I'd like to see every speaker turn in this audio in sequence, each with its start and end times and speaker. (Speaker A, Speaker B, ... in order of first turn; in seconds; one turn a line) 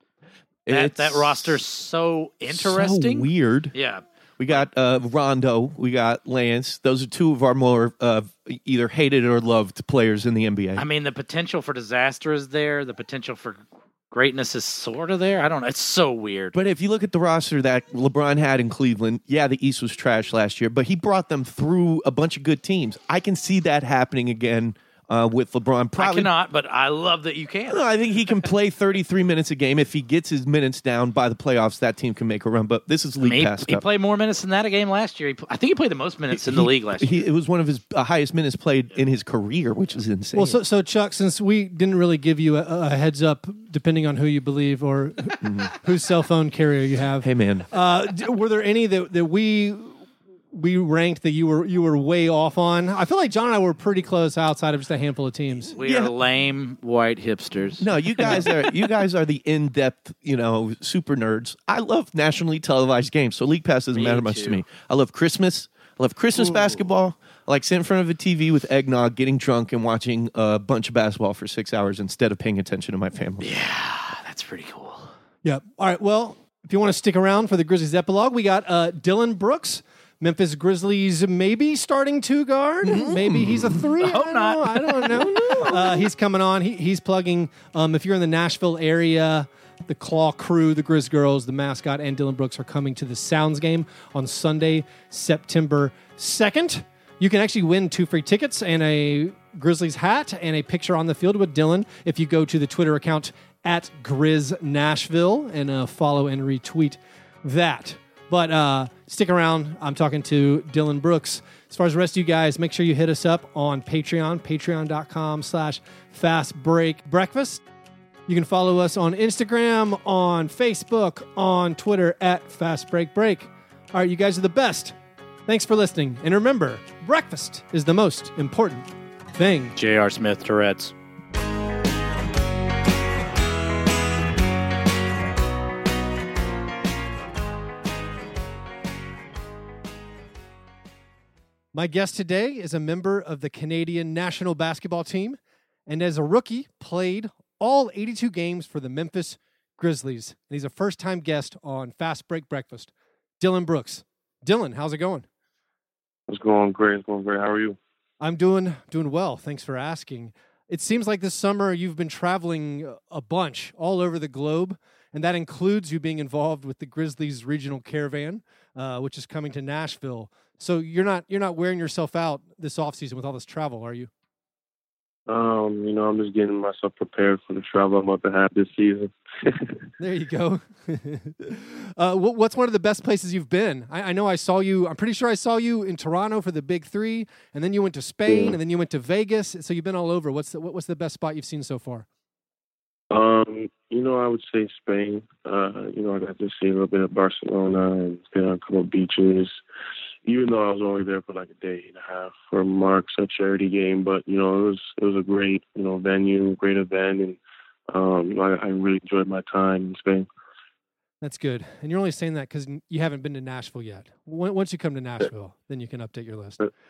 Speaker A: 0.7-1.6
Speaker B: 0.7-4.6
Speaker A: 2.5-3.7
Speaker A: 4.4-10.8
Speaker B: 10.8-16.6
Speaker A: 16.5-26.3
Speaker B: 26.0-27.9
Speaker A: 27.7-33.8
Speaker B: 33.2-37.2
Speaker A: 36.3-40.6
Speaker C: 40.4-50.0
Speaker A: 45.4-45.7
Speaker A: 47.2-47.7
Speaker C: 50.5-55.7
Speaker B: 55.7-58.6
Speaker A: 55.8-56.1
Speaker A: 57.8-73.5
Speaker B: 63.9-64.6
Speaker B: 73.4-75.1
Speaker C: 75.4-117.6
Speaker A: 82.8-83.8
Speaker B: 84.0-85.7
Speaker A: 85.3-85.6
Speaker C: 118.3-125.0
Speaker C: 125.5-129.8
Speaker B: 129.8-130.9
Speaker C: 141.7-155.3
Speaker D: 156.3-157.8
Speaker C: 158.2-174.1
Speaker D: 175.3-179.8
Speaker C: 180.0-192.1
Speaker D: 188.3-188.6
Speaker D: 193.1-199.6
Speaker D: 200.2-207.4
Speaker D: 207.9-210.3
Speaker C: 211.2-216.6